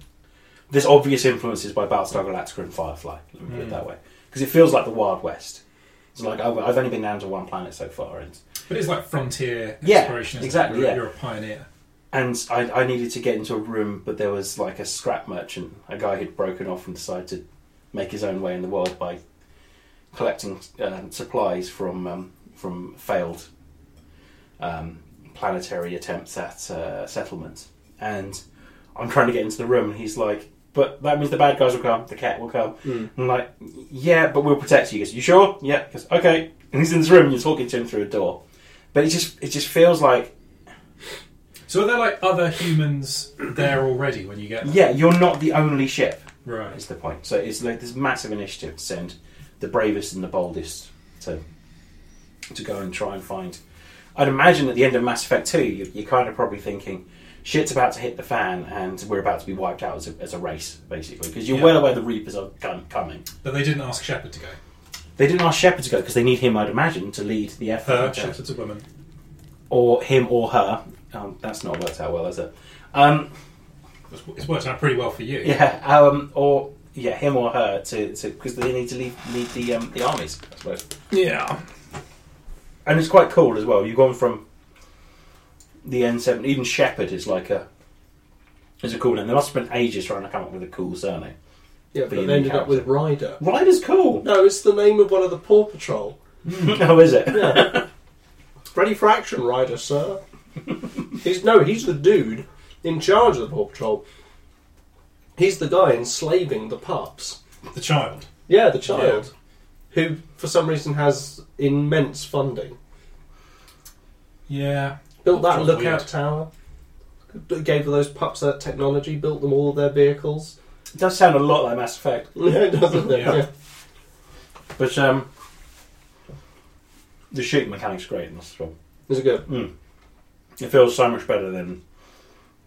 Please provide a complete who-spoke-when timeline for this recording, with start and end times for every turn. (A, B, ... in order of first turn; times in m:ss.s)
0:00.7-0:05.6 A
0:03.5-0:03.8 B
0:06.2-0:08.4 A
0:08.7-0:11.7 B
0:09.8-0:11.0 A
0:12.1-0:19.2 A
0:20.1-0:23.5 A
0:24.6-0:28.4 A
0:29.0-0:38.4 A
0:32.8-0:33.1 C
0:38.9-0:40.3 A
0:41.7-0:44.8 B
0:44.6-0:51.4 A
0:46.4-0:46.8 B
0:52.5-0:53.6 A
0:54.2-1:03.3 A
1:01.5-1:01.8 B
1:03.4-1:04.6 B
1:05.2-1:08.4 A
1:07.8-1:08.8 B
1:09.7-1:13.3 A
1:14.1-1:15.6 B
1:15.4-1:20.8 A
1:21.1-1:21.6 B
1:22.8-1:24.4 A
1:25.8-1:27.7 A
1:28.8-1:31.3 A
1:31.9-1:33.4 C
1:32.1-1:34.2 A
1:34.2-1:36.2 C
1:36.4-1:36.8 B
1:36.5-1:37.9 A
1:37.3-1:37.8 C
1:38.7-1:40.2 C
1:41.2-1:44.0 C
1:45.4-1:47.4 C
1:47.7-1:48.3 B
1:48.5-1:49.3 C
1:48.9-1:49.3 B
1:49.9-1:52.8 C
1:54.5-1:56.1 B
1:55.2-1:56.5 C
1:57.3-2:00.6 C
2:00.9-2:02.4 A
2:02.4-2:03.5 C
2:03.0-2:03.4 B
2:04.8-2:05.3 A
2:07.3-2:08.7 A
2:09.1-2:09.5 C
2:09.5-2:09.7 A
2:10.6-2:11.8 A